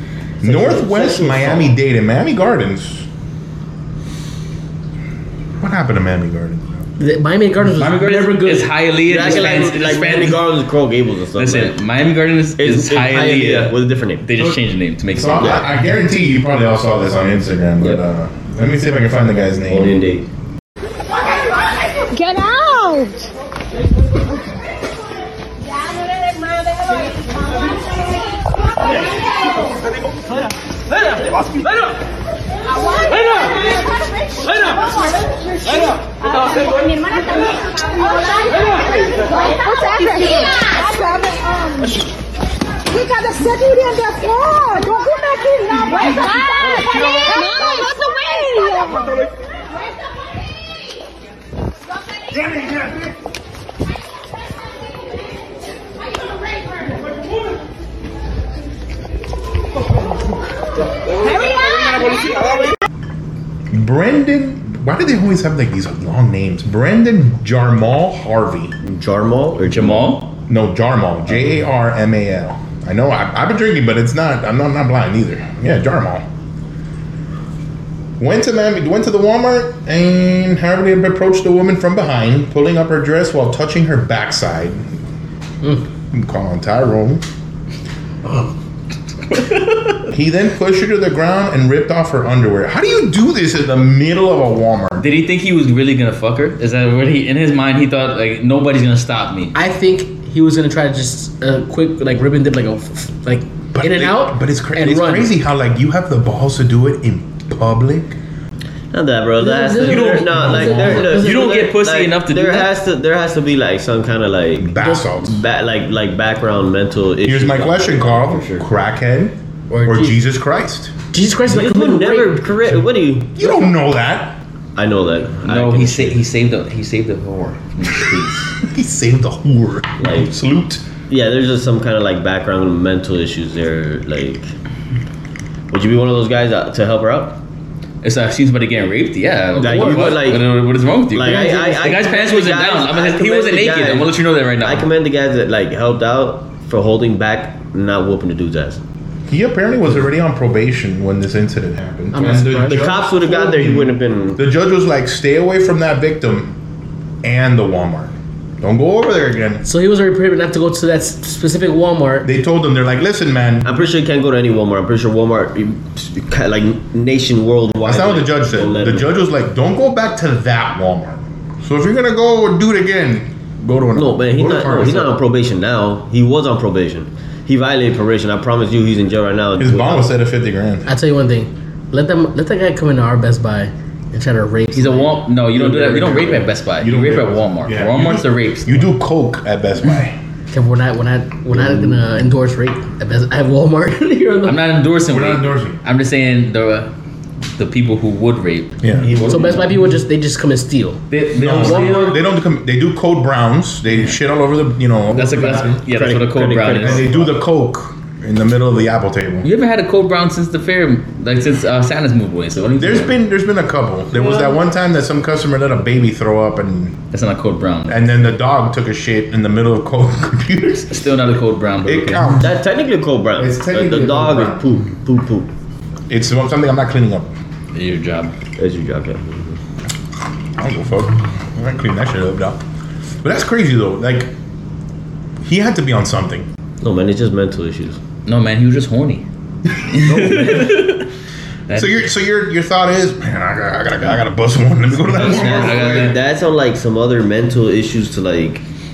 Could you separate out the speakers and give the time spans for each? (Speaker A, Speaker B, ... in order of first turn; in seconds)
Speaker A: 0.4-1.7, 9.0-11.7, 12.6-14.2, 19.6-20.3, 68.8-70.2, 108.9-118.7, 121.5-123.7, 124.8-126.2, 130.0-130.3, 131.1-134.5, 135.7-137.4, 139.6-140.5, 141.1-148.8, 152.6-154.4, 163.6-169.1, 173.9-180.1, 185.6-186.4, 199.0-199.7, 205.9-207.4, 222.4-225.5, 228.6-229.6, 236.8-238.0, 245.1-248.6
Speaker B: 0.4-3.0, 5.6-6.8, 15.1-20.1, 63.7-68.7, 70.5-76.2, 78.2-84.9, 86.1-87.2, 90.1-95.0, 103.7-108.2, 109.8-111.1, 114.6-115.4, 117.2-120.9, 123.3-124.4, 128.6-130.8, 149.3-156.6, 157.2-159.6, 162.2-163.7, 167.8-175.2, 179.6-180.9, 186.8-190.2, 195.1-195.8, 198.8-199.1, 201.3-205.8, 206.7-209.5, 212.8-216.9, 217.9-221.0, 221.8-222.5, 223.4-224.7, 226.1-227.3, 230.6-232.6, 233.2-234.3, 235.4-236.5, 239.9-240.9, 241.7-246.1
Speaker C: 7.0-9.7, 88.2-88.5, 99.5-105.3, 109.4-111.6, 114.8-115.0, 119.7-120.2, 121.1-122.4, 139.5-140.3, 141.2-141.9, 152.1-152.9, 159.6-162.3, 180.8-185.2, 190.5-194.6, 199.3-202.2
Speaker D: 7.8-10.4, 11.3-15.7, 69.6-70.3, 89.3-90.0, 95.0-99.5, 110.8-112.7, 125.4-128.5, 138.0-144.9, 184.7-188.9, 194.4-196.9, 197.6-199.6, 201.1-202.2, 205.1-207.1, 209.4-213.2, 217.1-218.0, 220.9-222.3, 227.7-228.3, 238.2-239.2, 239.8-241.1, 241.7-242.0, 245.1-246.2
Speaker E: 22.1-23.3, 26.8-27.2, 32.7-42.0, 42.9-49.2